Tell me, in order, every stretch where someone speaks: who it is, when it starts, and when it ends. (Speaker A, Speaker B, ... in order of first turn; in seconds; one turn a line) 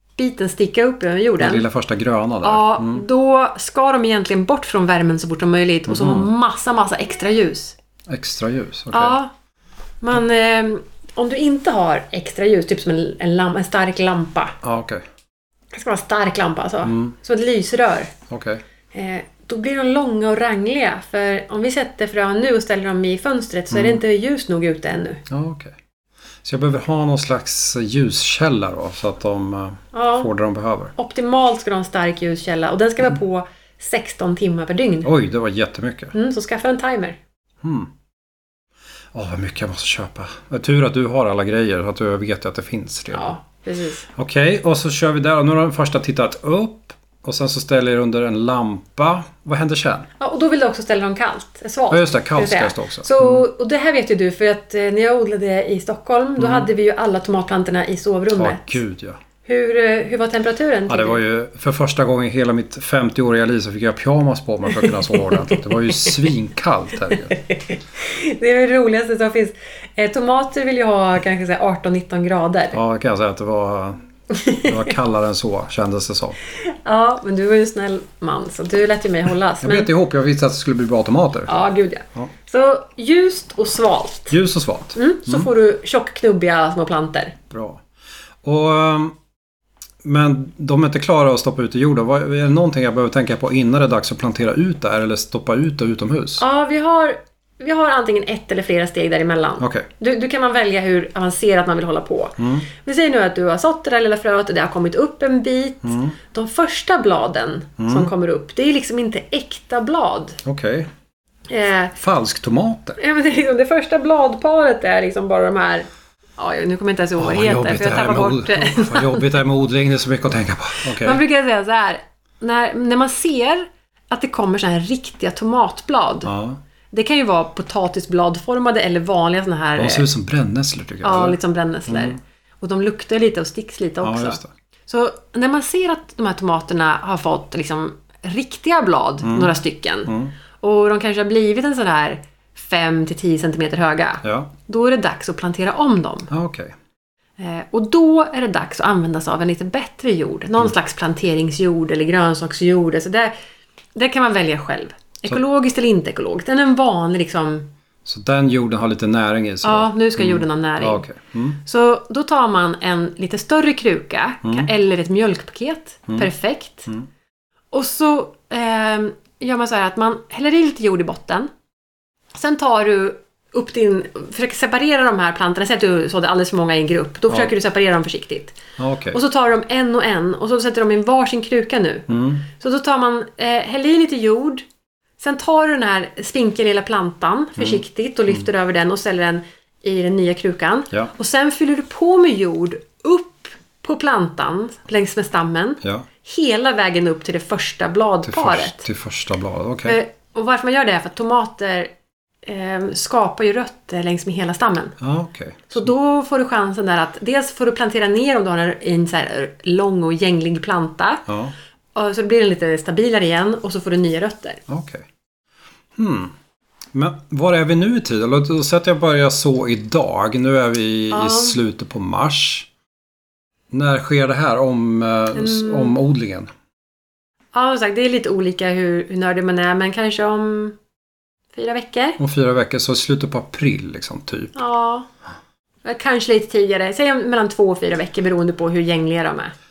Speaker A: 0.2-1.6
Speaker B: 1.4-3.0
Speaker A: 2.4-7.7
Speaker B: 5.9-6.3
Speaker B: 8.1-9.2
Speaker A: 8.9-9.3
Speaker A: 10.0-14.5
Speaker B: 14.6-15.0
Speaker A: 15.7-18.1
Speaker B: 16.8-17.1
Speaker B: 18.3-18.6
Speaker A: 18.9-25.2
Speaker B: 23.7-24.0
Speaker B: 25.3-25.7
Speaker B: 26.4-30.9
Speaker A: 29.9-30.3
Speaker A: 30.9-35.1
Speaker B: 35.0-36.1
Speaker A: 36.1-37.2
Speaker B: 37.6-37.9
Speaker B: 39.1-43.3
Speaker A: 43.1-44.1
Speaker B: 44.1-50.1
Speaker A: 50.2-58.8
Speaker B: 51.9-53.5
Speaker B: 56.4-56.7
Speaker B: 58.3-59.2
Speaker A: 59.4-61.2
Speaker B: 60.9-67.3
Speaker A: 65.5-66.1
Speaker A: 67.2-72.8
Speaker B: 72.7-74.0
Speaker A: 74.3-74.7
Speaker B: 74.6-76.4
Speaker A: 76.6-79.9
Speaker B: 79.6-81.6
Speaker A: 81.5-84.3
Speaker B: 84.3-85.5
Speaker A: 84.9-87.3
Speaker B: 87.5-87.8
Speaker B: 88.4-89.1
Speaker B: 90.0-96.4
Speaker A: 96.4-110.4
Speaker B: 99.6-99.9
Speaker B: 102.4-102.7
Speaker B: 105.8-106.2
Speaker B: 107.8-108.1
Speaker B: 110.4-110.9
Speaker A: 111.5-112.0
Speaker B: 112.0-113.0
Speaker A: 113.0-119.3
Speaker B: 117.2-121.2
Speaker A: 120.8-126.3
Speaker B: 126.2-126.6
Speaker A: 126.9-130.1
Speaker B: 129.8-132.2
Speaker A: 131.0-146.3
Speaker B: 134.0-134.5
Speaker B: 139.2-139.5
Speaker B: 140.1-140.3
Speaker B: 144.2-144.5
Speaker B: 146.3-146.7
Speaker A: 147.4-153.3
Speaker A: 153.9-157.7
Speaker B: 158.0-161.6
Speaker A: 159.6-161.1
Speaker A: 161.6-166.9
Speaker B: 164.4-164.7
Speaker A: 167.7-171.5
Speaker A: 172.3-178.6
Speaker B: 178.8-179.2
Speaker A: 179.1-184.6
Speaker B: 182.1-182.4
Speaker A: 185.2-198.8
Speaker B: 187.6-187.8
Speaker B: 198.2-200.0
Speaker A: 199.8-201.9
Speaker A: 202.4-204.9
Speaker B: 205.0-205.9
Speaker A: 205.7-211.2
Speaker B: 211.3-211.5
Speaker A: 211.9-214.6
Speaker B: 214.7-215.1
Speaker B: 215.9-216.3
Speaker B: 216.9-222.7
Speaker A: 221.1-221.6
Speaker B: 223.7-226.5
Speaker A: 225.3-226.0
Speaker A: 227.5-230.8
Speaker A: 231.5-232.2
Speaker B: 232.2-234.5
Speaker A: 234.5-235.1
Speaker A: 235.8-239.5